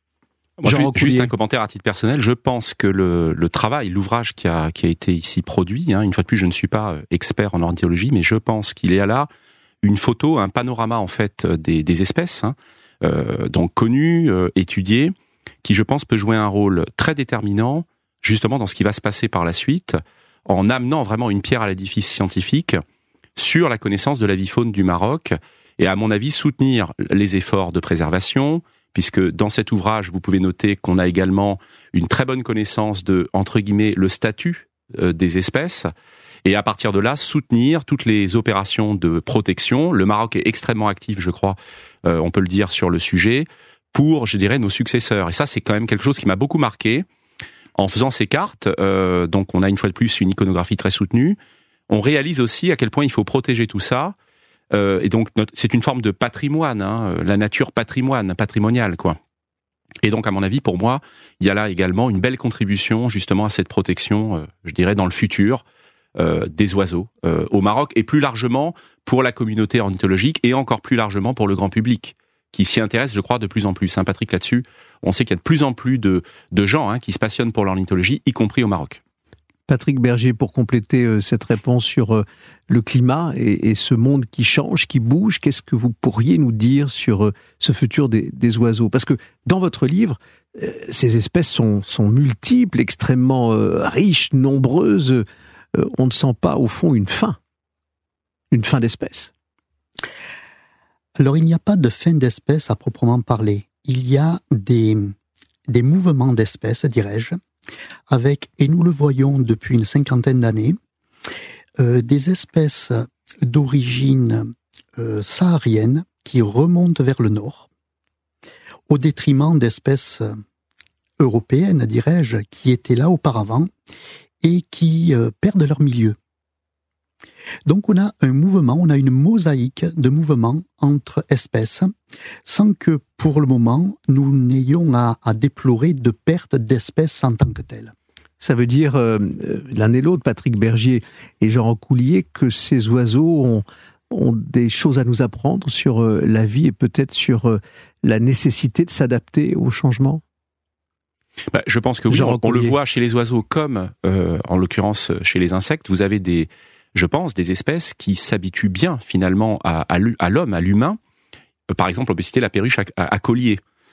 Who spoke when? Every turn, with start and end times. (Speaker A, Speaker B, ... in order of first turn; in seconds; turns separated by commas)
Speaker A: 0.6-9.3, Speaker B: 0.6-1.3, Speaker A: 9.8-22.8, Speaker A: 23.4-35.9, Speaker A: 36.4-47.0, Speaker A: 47.8-51.4, Speaker A: 51.9-54.1, Speaker A: 54.7-59.2, Speaker A: 60.0-65.6, Speaker A: 66.2-79.0, Speaker B: 79.7-97.4, Speaker B: 98.5-99.3, Speaker C: 101.2-105.1, Speaker C: 105.7-107.4, Speaker C: 108.1-110.8, Speaker C: 111.8-117.7, Speaker C: 118.9-120.3, Speaker C: 121.2-123.7, Speaker C: 124.4-126.2, Speaker C: 127.7-131.9, Speaker C: 132.4-137.9, Speaker B: 138.4-150.2, Speaker A: 151.5-161.0, Speaker B: 152.1-152.7, Speaker A: 161.7-163.6